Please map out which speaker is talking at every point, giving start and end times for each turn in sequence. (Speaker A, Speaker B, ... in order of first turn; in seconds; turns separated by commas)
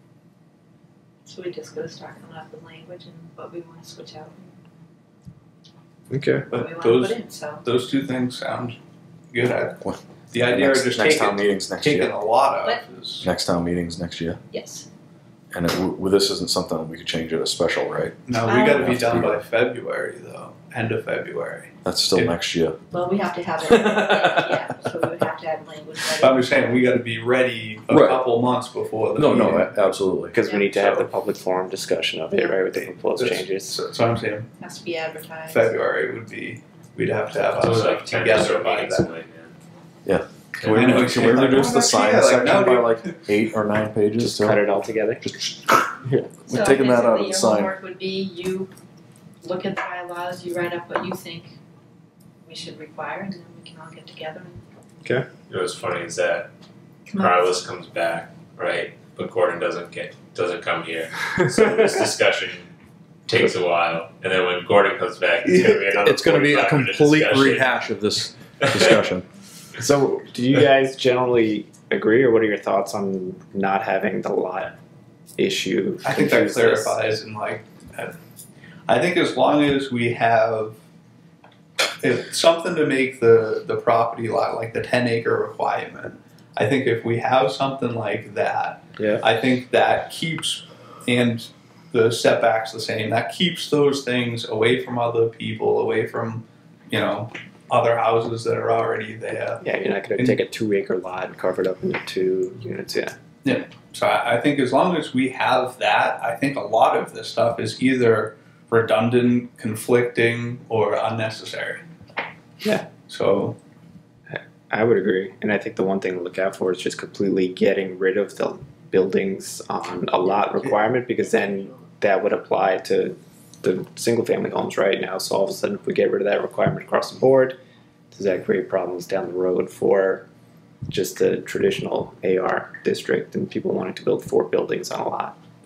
Speaker A: 1.2-4.5, Speaker B: 6.1-6.5, Speaker C: 6.5-8.8, Speaker A: 6.5-7.7, Speaker C: 9.3-13.2, Speaker D: 10.5-12.1, Speaker D: 13.2-14.4, Speaker A: 14.5-14.9, Speaker D: 15.5-19.4, Speaker C: 18.3-22.3, Speaker A: 18.4-18.9, Speaker D: 21.8-22.8, Speaker A: 22.9-26.6, Speaker D: 23.8-24.6, Speaker C: 26.2-29.9, Speaker D: 27.9-28.2, Speaker D: 29.2-30.3, Speaker B: 30.3-33.8, Speaker C: 30.7-31.1, Speaker C: 32.7-34.5, Speaker A: 34.6-35.7, Speaker C: 35.5-39.1, Speaker E: 37.5-39.5, Speaker D: 40.0-44.6, Speaker E: 40.5-41.2, Speaker C: 40.6-43.3, Speaker B: 44.2-45.2, Speaker D: 45.2-45.9, Speaker B: 46.0-46.3, Speaker A: 46.4-48.7, Speaker D: 46.5-47.7, Speaker A: 49.4-51.6, Speaker A: 52.4-54.6, Speaker E: 55.5-56.5, Speaker A: 57.1-57.5, Speaker E: 57.1-62.7, Speaker E: 63.3-67.7, Speaker D: 66.0-69.2, Speaker B: 69.8-74.7, Speaker B: 75.4-77.0, Speaker C: 76.0-78.2, Speaker C: 78.9-80.8, Speaker C: 82.0-99.6, Speaker B: 89.0-89.2, Speaker B: 99.6-103.2, Speaker C: 103.4-111.8, Speaker B: 112.6-112.9, Speaker C: 113.1-113.6, Speaker B: 114.3-127.6, Speaker B: 128.1-130.2, Speaker B: 130.9-135.3